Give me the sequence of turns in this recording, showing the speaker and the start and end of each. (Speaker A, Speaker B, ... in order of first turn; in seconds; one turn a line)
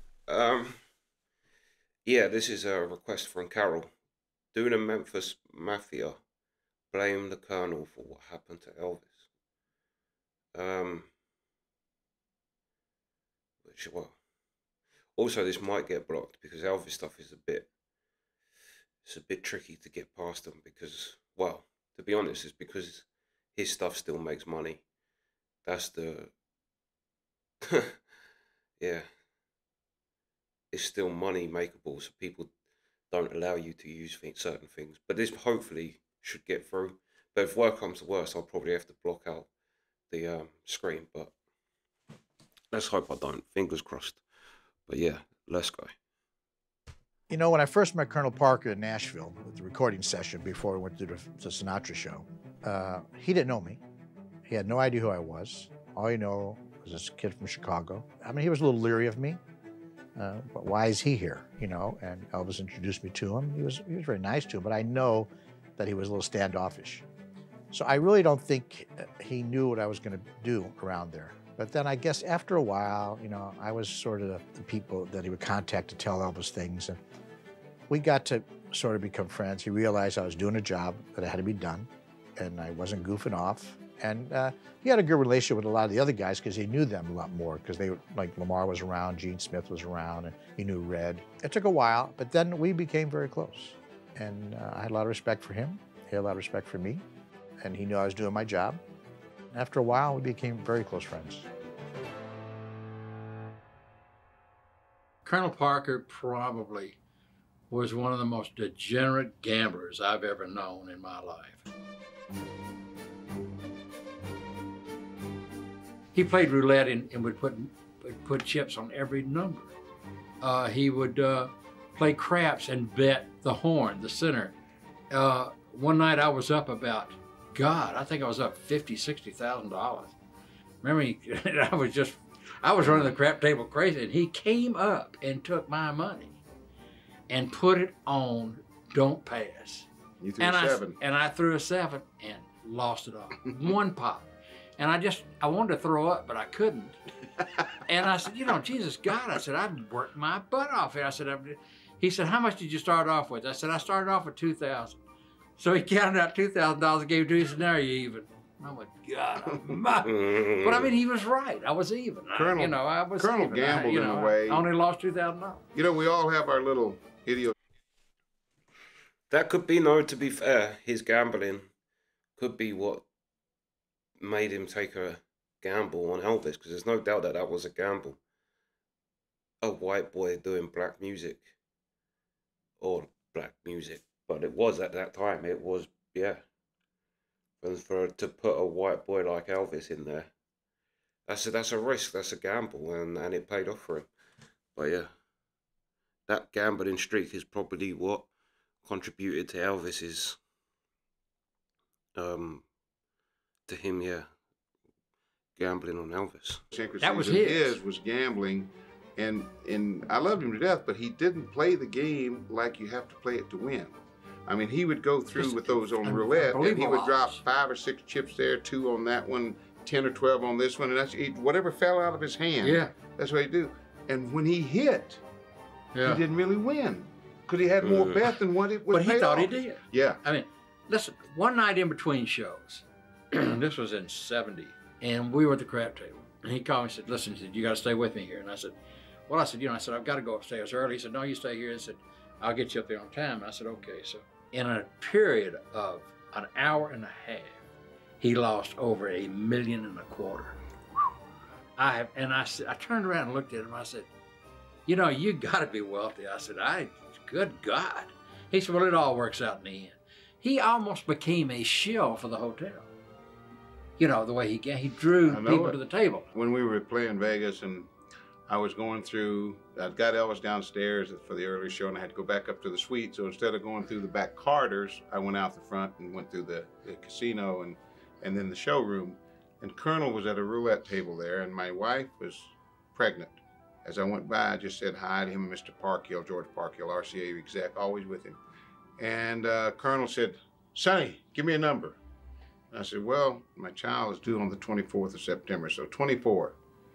Speaker A: 0.3-0.8
Speaker A: 2.0-3.9
Speaker A: 4.5-6.2
Speaker A: 6.9-9.3
Speaker A: 10.5-11.1
Speaker A: 13.6-14.2
Speaker A: 15.2-17.7
Speaker A: 19.0-24.8
Speaker A: 25.6-26.3
Speaker A: 28.8-29.1
Speaker A: 30.7-32.5
Speaker A: 33.1-39.5
Speaker A: 40.1-41.3
Speaker A: 42.7-44.2
Speaker A: 44.9-45.9
Speaker B: 47.3-53.8
Speaker B: 54.5-59.4
Speaker B: 60.1-67.0
Speaker B: 67.7-77.0
Speaker B: 77.9-97.0
Speaker B: 97.6-98.8
Speaker B: 99.5-101.5
Speaker C: 105.2-107.0
Speaker C: 107.7-111.6
Speaker C: 116.1-119.7
Speaker C: 120.4-124.5
Speaker C: 125.1-130.1
Speaker C: 130.8-136.4
Speaker D: 132.8-133.1
Speaker C: 137.3-139.9
Speaker D: 140.2-141.0
Speaker C: 140.4-147.0
Speaker C: 147.9-155.0
Speaker C: 155.6-165.6
Speaker A: 160.0-160.9
Speaker D: 162.3-164.7
Speaker D: 165.7-167.5
Speaker A: 169.3-171.7
Speaker A: 172.4-173.0
Speaker A: 174.2-178.2
Speaker A: 179.6-181.5
Speaker A: 182.8-186.4
Speaker A: 187.6-190.3
Speaker A: 191.3-194.1
Speaker A: 194.8-195.1
Speaker A: 196.3-198.3
Speaker A: 198.8-200.4
Speaker A: 202.2-202.6
Speaker A: 203.7-204.3
Speaker A: 205.6-206.6
Speaker D: 206.7-213.9
Speaker C: 207.0-207.8
Speaker D: 214.5-225.2
Speaker C: 215.3-217.4
Speaker C: 222.6-222.9
Speaker C: 225.9-226.2
Speaker D: 226.0-230.2
Speaker A: 227.8-228.2
Speaker C: 228.9-238.7
Speaker C: 239.3-247.6
Speaker C: 248.2-250.6
Speaker C: 251.8-254.1
Speaker C: 254.8-262.9
Speaker C: 264.0-266.3
Speaker D: 265.2-265.8
Speaker D: 266.3-267.9
Speaker D: 268.5-288.4
Speaker D: 289.0-292.0
Speaker D: 292.7-296.6